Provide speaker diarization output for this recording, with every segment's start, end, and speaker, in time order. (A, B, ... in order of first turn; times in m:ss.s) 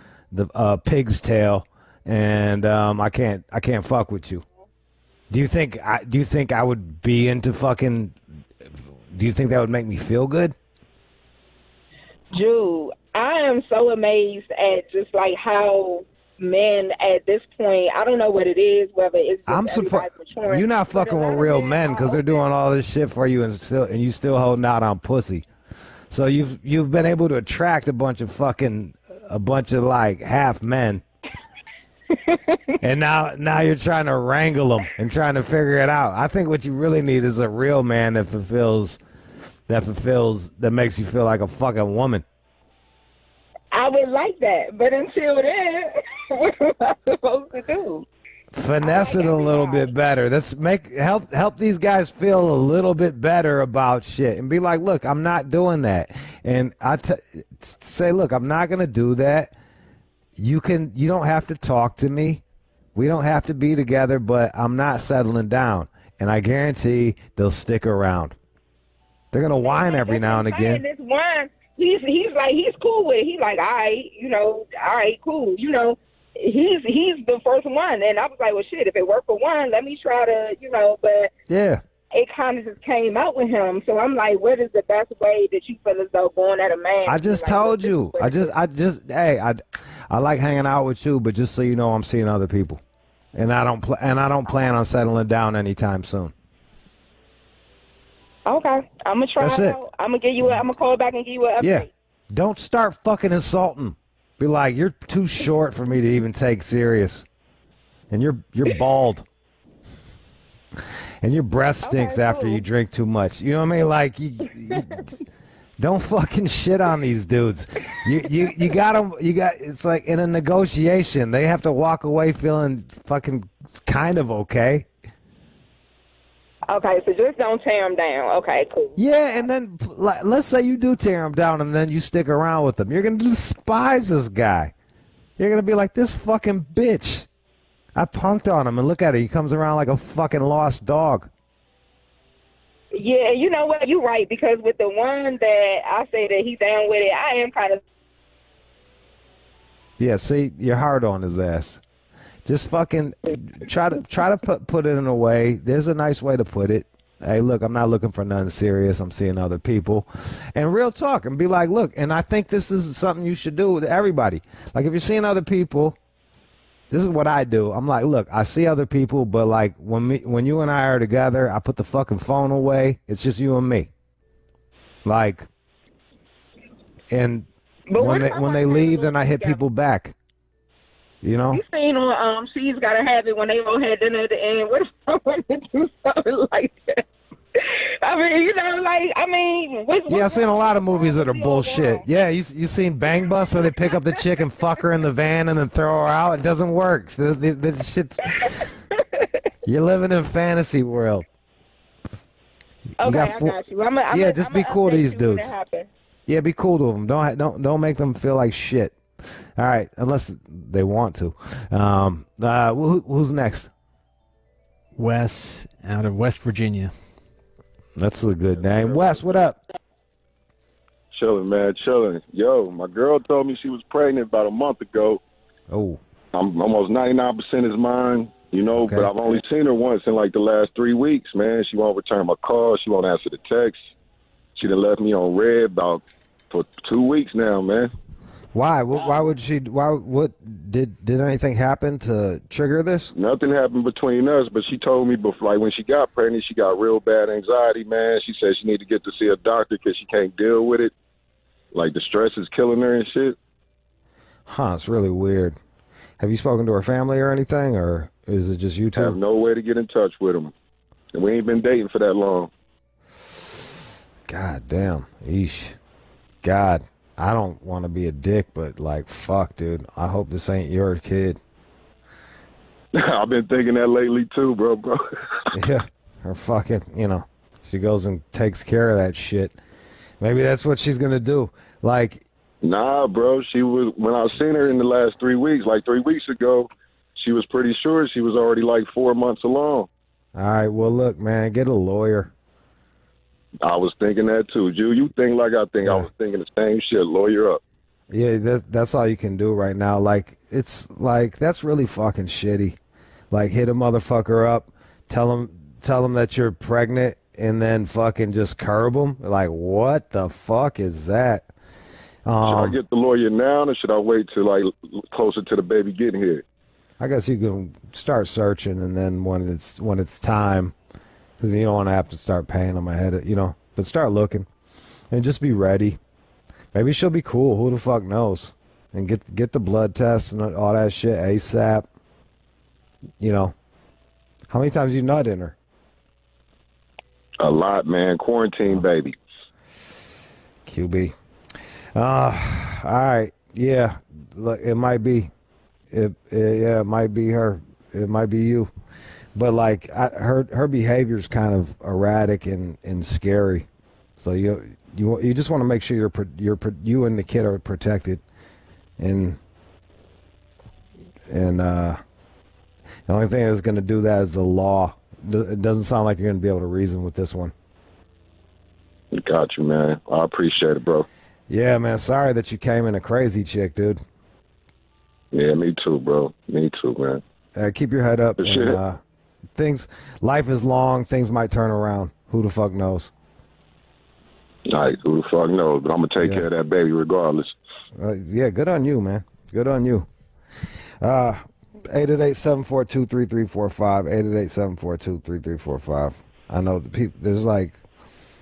0:00.3-0:04.4 A
0:05.3-0:08.2 A
0:09.1-0:10.5 A
0:12.3-0:22.4 B
0:19.5-0:25.5 A
0:26.1-0:31.0 A
0:32.8-0:39.0 A
0:39.7-0:42.2 A
0:43.7-0:48.1 B
0:48.5-0:59.5 A
0:48.8-0:49.9 B
1:00.4-1:02.4 A
1:02.9-1:08.4 A
1:09.3-1:10.8 A
1:09.6-1:21.3 B
1:21.5-1:21.8 A
1:22.1-1:28.5 B
1:27.0-1:32.8 A
1:33.3-1:36.3 A
1:38.4-1:41.9 B
1:39.4-1:39.8 A
1:41.6-1:47.3 A
1:48.1-1:49.3 A
1:51.2-1:55.1 A
1:51.8-1:52.6 B
1:55.8-2:04.9 A
2:06.7-2:09.4 B
2:09.0-2:14.7 A
2:15.4-2:17.3 A
2:17.9-2:21.3 A
2:22.9-2:27.8 B
2:30.0-2:31.8 A
2:32.4-2:46.0 A
2:46.9-2:53.9 A
2:55.0-2:55.5 A
2:57.1-3:00.1 A
2:57.9-2:59.6 B
3:01.2-3:01.6 A
3:01.5-3:07.0 B
3:08.0-3:12.0 B
3:10.1-3:18.6 A
3:19.6-3:21.2 A
3:23.0-3:25.5 A
3:23.0-3:25.9 B
3:26.3-3:29.0 A
3:29.6-3:33.7 A
3:34.9-3:36.9 C
3:38.0-3:39.6 A
3:41.1-3:45.2 D
3:45.7-3:46.0 A
3:46.3-3:53.8 D
3:48.8-3:49.1 A
3:54.6-3:57.9 D
3:58.5-4:03.1 A
4:03.1-4:10.9 D
4:11.7-4:13.4 D
4:14.4-4:15.6 A
4:16.2-4:19.2 A
4:18.9-4:20.5 D
4:21.1-4:22.5 D
4:24.2-4:25.8 A
4:26.4-4:31.4 A
4:32.9-4:35.0 D
4:35.5-4:39.6 A
4:40.2-4:42.2 A
4:42.6-4:49.9 D
4:50.3-4:52.3 A
4:53.6-4:57.6 D
4:55.8-4:56.1 A
4:58.1-5:02.8 A
5:03.3-5:11.5 A
5:12.2-5:12.8 A
5:12.4-5:16.4 D
5:17.0-5:20.8 A
5:21.4-5:24.5 A
5:25.1-5:26.0 A
5:26.7-5:31.9 A
5:33.2-5:33.5 A
5:34.5-5:35.6 A
5:37.4-5:39.2 D
5:40.6-5:41.1 A
5:41.9-5:45.3 A
5:45.9-5:48.7 A
5:49.3-5:53.7 A
5:54.2-5:58.2 A
5:59.0-5:59.4 A
6:01.3-6:02.0 A
6:03.1-6:07.5 A
6:09.1-6:11.0 D
6:11.5-6:14.0 A
6:15.3-6:17.2 D
6:17.5-6:19.0 A
6:18.4-6:18.8 D
6:19.5-6:23.1 A
6:24.7-6:27.5 D
6:26.2-6:26.5 A
6:27.9-6:30.1 A
6:31.0-6:37.8 A